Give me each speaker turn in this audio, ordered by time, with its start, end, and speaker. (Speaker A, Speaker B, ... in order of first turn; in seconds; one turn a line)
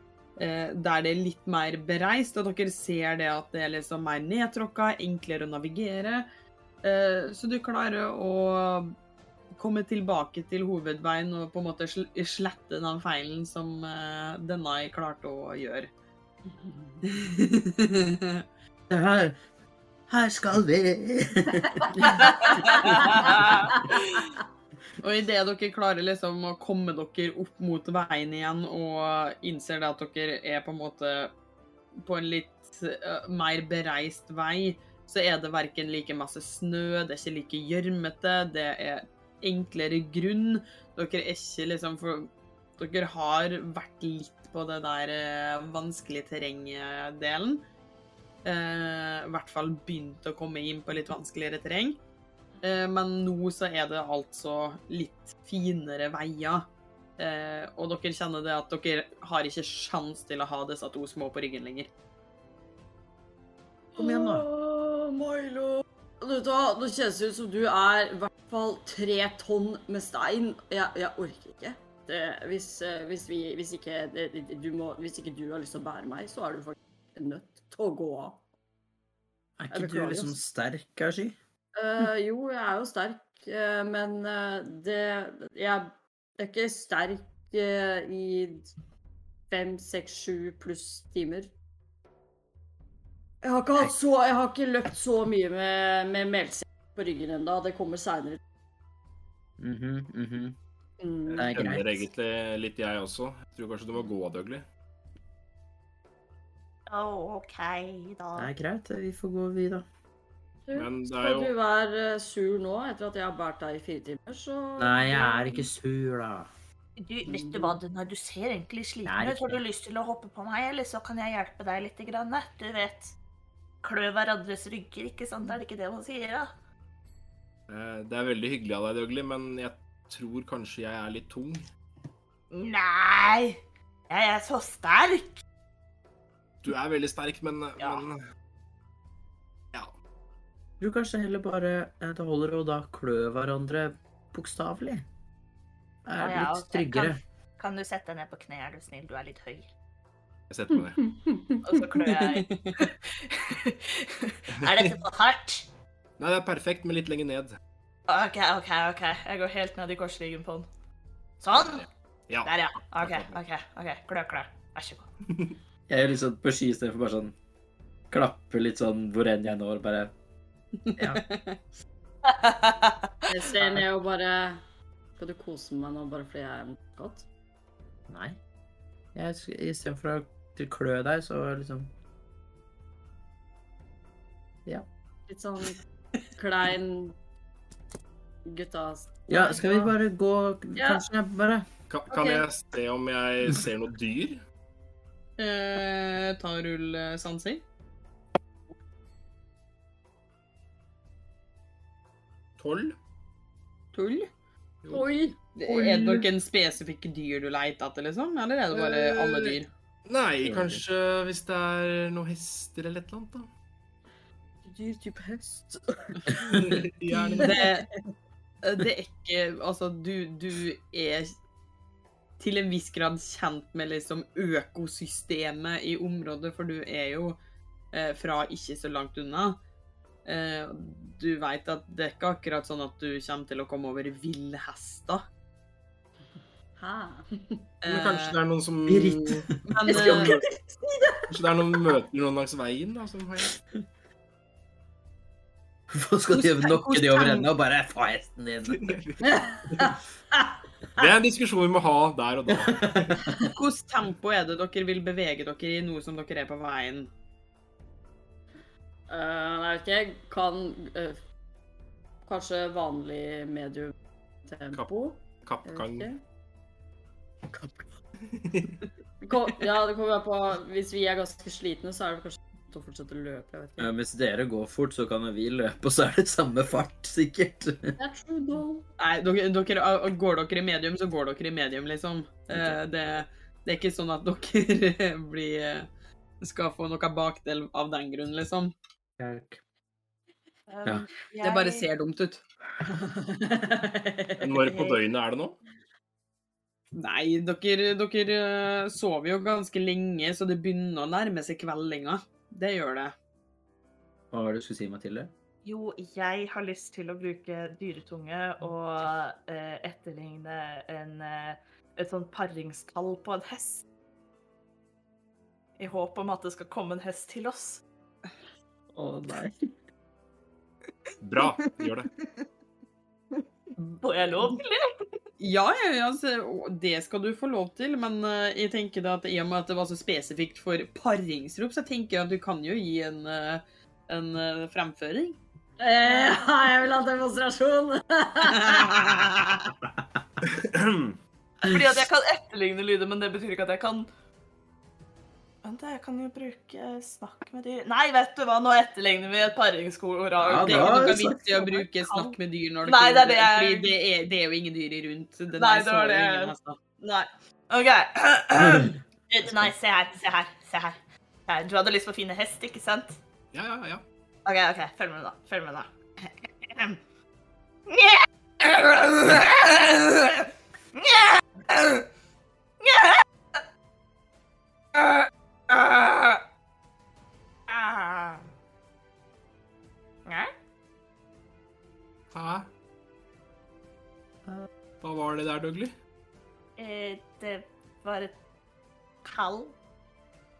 Speaker A: 0.4-6.3
Speaker A: 6.8-8.9
Speaker A: 9.5-15.9
Speaker B: 16.5-17.0
Speaker A: 17.0-18.4
Speaker C: 18.9-19.4
Speaker C: 20.1-22.2
Speaker B: 21.8-23.8
Speaker D: 22.2-23.8
Speaker C: 22.9-23.4
Speaker A: 23.9-24.2
Speaker A: 25.0-31.3
Speaker A: 32.0-47.6
Speaker A: 48.5-52.0
Speaker A: 52.6-61.9
Speaker C: 64.0-64.5
Speaker B: 64.0-78.4
Speaker C: 79.6-81.4
Speaker B: 79.7-80.4
Speaker B: 81.8-88.7
Speaker B: 89.5-91.5
Speaker B: 93.4-98.4
Speaker C: 99.6-100.6
Speaker B: 101.0-101.7
Speaker E: 101.3-104.7
Speaker C: 101.4-102.0
Speaker D: 106.9-108.5
Speaker C: 108.4-109.8
Speaker B: 110.7-115.7
Speaker E: 110.7-111.5
Speaker C: 114.8-116.5
Speaker D: 117.0-123.2
Speaker B: 117.3-117.8
Speaker C: 119.1-119.6
Speaker D: 123.8-126.5
Speaker E: 127.7-131.7
Speaker D: 132.5-135.4
Speaker E: 136.6-138.2
Speaker D: 137.8-138.1
Speaker C: 140.8-145.1
Speaker C: 146.1-147.2
Speaker D: 146.2-149.7
Speaker E: 150.5-151.0
Speaker B: 150.7-151.6
Speaker D: 151.6-155.7
Speaker A: 152.1-152.9
Speaker E: 154.6-154.9
Speaker E: 156.2-157.6
Speaker D: 158.1-160.7
Speaker D: 161.4-161.8
Speaker E: 161.6-163.4
Speaker D: 162.4-165.1
Speaker E: 165.3-165.5
Speaker C: 165.9-167.4
Speaker C: 168.1-170.1
Speaker A: 170.8-171.6
Speaker C: 171.0-171.2
Speaker D: 172.2-173.1
Speaker A: 173.3-173.8
Speaker B: 173.4-174.6
Speaker B: 175.2-177.3
Speaker C: 178.1-178.4
Speaker C: 179.1-181.9
Speaker B: 185.3-185.8
Speaker B: 186.3-187.2
Speaker B: 188.5-189.9
Speaker C: 189.3-191.7
Speaker B: 190.8-191.0
Speaker E: 191.9-194.4
Speaker A: 195.4-197.6
Speaker E: 202.6-203.0
Speaker A: 203.9-204.3
Speaker B: 204.9-206.3
Speaker A: 205.6-209.7
Speaker E: 208.7-213.5
Speaker C: 210.4-210.8
Speaker B: 214.7-216.6
Speaker E: 216.3-217.6
Speaker B: 217.1-218.0
Speaker A: 217.3-217.9
Speaker A: 218.6-221.4
Speaker A: 222.4-227.4
Speaker A: 227.9-229.6
Speaker A: 230.2-235.2
Speaker B: 236.8-237.6
Speaker A: 237.8-238.4
Speaker E: 237.9-240.4
Speaker C: 238.9-240.3
Speaker A: 239.7-240.3
Speaker B: 240.0-241.2
Speaker E: 241.3-243.5
Speaker C: 245.9-248.9
Speaker A: 246.4-247.5
Speaker E: 248.7-250.0
Speaker B: 249.2-250.5
Speaker E: 251.0-253.2
Speaker C: 252.5-253.2
Speaker A: 253.5-257.1
Speaker B: 259.1-261.2
Speaker B: 262.2-266.2
Speaker E: 264.7-266.1
Speaker B: 267.5-267.9
Speaker E: 268.3-268.8
Speaker B: 269.2-273.9
Speaker C: 273.8-278.0
Speaker B: 278.0-278.9
Speaker A: 279.0-285.9
Speaker C: 282.5-282.8
Speaker A: 286.4-288.7
Speaker C: 289.2-289.6
Speaker D: 290.7-291.9
Speaker A: 291.4-292.4
Speaker B: 292.9-294.8
Speaker E: 294.4-295.6
Speaker A: 296.9-303.1
Speaker C: 304.3-305.3
Speaker D: 305.6-313.9
Speaker D: 315.8-317.8
Speaker C: 318.9-319.6
Speaker E: 321.2-322.1
Speaker D: 321.4-322.3
Speaker D: 323.4-325.1
Speaker A: 325.4-335.4
Speaker B: 335.8-339.2
Speaker E: 340.5-341.2
Speaker D: 341.6-344.1
Speaker D: 345.6-353.9
Speaker C: 350.4-351.4
Speaker A: 350.6-356.8
Speaker D: 355.6-363.2
Speaker E: 363.5-364.0
Speaker D: 364.5-367.0
Speaker D: 367.9-372.1
Speaker D: 372.8-373.2
Speaker D: 374.9-376.4
Speaker D: 377.7-378.5
Speaker E: 382.3-382.7
Speaker E: 385.0-385.9
Speaker D: 386.8-388.4
Speaker D: 389.2-389.8